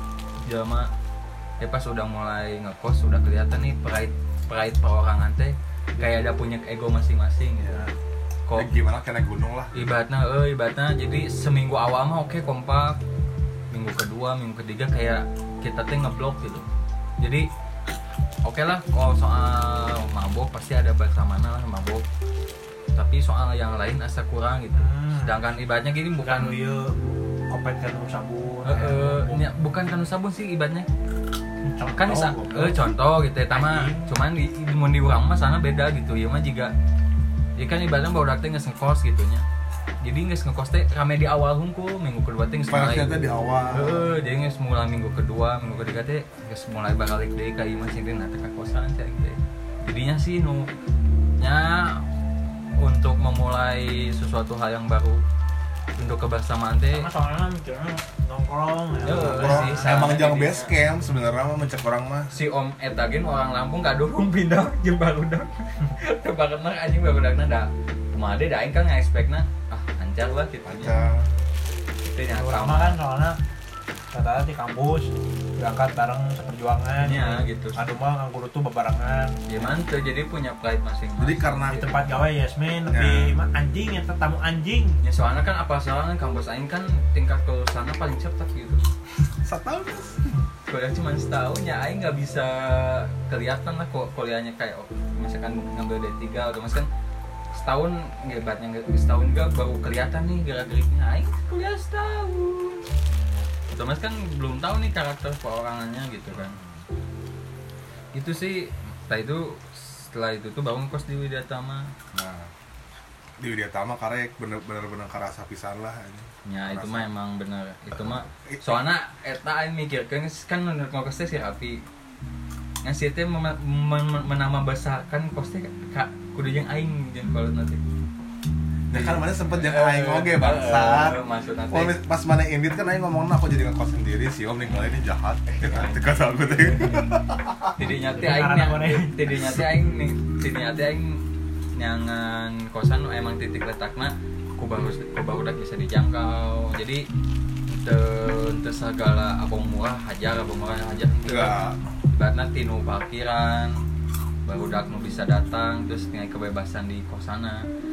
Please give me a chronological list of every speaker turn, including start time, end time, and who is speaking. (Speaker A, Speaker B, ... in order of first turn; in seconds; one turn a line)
Speaker A: 0.4-0.9
Speaker A: 1.6-7.9
Speaker B: 7.7-7.9
Speaker C: 8.5-9.9
Speaker A: 9.7-13.0
Speaker A: 13.7-16.7
Speaker A: 17.2-17.5
Speaker A: 18.4-22.0
Speaker A: 22.9-26.5
Speaker B: 24.8-25.4
Speaker B: 26.2-29.5
Speaker A: 28.6-30.9
Speaker B: 31.6-32.9
Speaker A: 31.9-36.7
Speaker B: 33.5-34.1
Speaker A: 37.6-39.5
Speaker A: 40.0-43.2
Speaker C: 42.7-44.1
Speaker A: 43.7-50.7
Speaker A: 51.4-52.1
Speaker A: 52.8-55.2
Speaker A: 56.0-57.1
Speaker B: 56.9-59.9
Speaker A: 59.0-60.7
Speaker C: 59.2-62.3
Speaker A: 62.3-71.0
Speaker C: 70.7-71.2
Speaker B: 71.0-71.3
Speaker A: 72.0-73.0
Speaker B: 72.3-73.4
Speaker B: 74.1-79.4
Speaker A: 77.0-77.8
Speaker A: 79.5-82.2
Speaker C: 81.2-82.1
Speaker B: 81.7-85.0
Speaker C: 82.9-83.3
Speaker A: 85.0-88.8
Speaker C: 89.4-90.3
Speaker A: 90.7-96.9
Speaker A: 97.5-102.9
Speaker A: 103.7-106.6
Speaker C: 106.3-106.8
Speaker A: 108.1-111.9
Speaker C: 112.1-112.5
Speaker C: 113.4-117.1
Speaker A: 116.5-121.8
Speaker C: 117.9-118.8
Speaker A: 122.8-127.8
Speaker C: 128.9-137.8
Speaker A: 128.9-132.0
Speaker A: 135.5-137.1
Speaker A: 137.8-141.2
Speaker B: 138.1-139.3
Speaker A: 141.8-147.1
Speaker A: 147.7-151.6
Speaker C: 151.2-151.8
Speaker A: 152.1-153.8
Speaker A: 154.5-157.6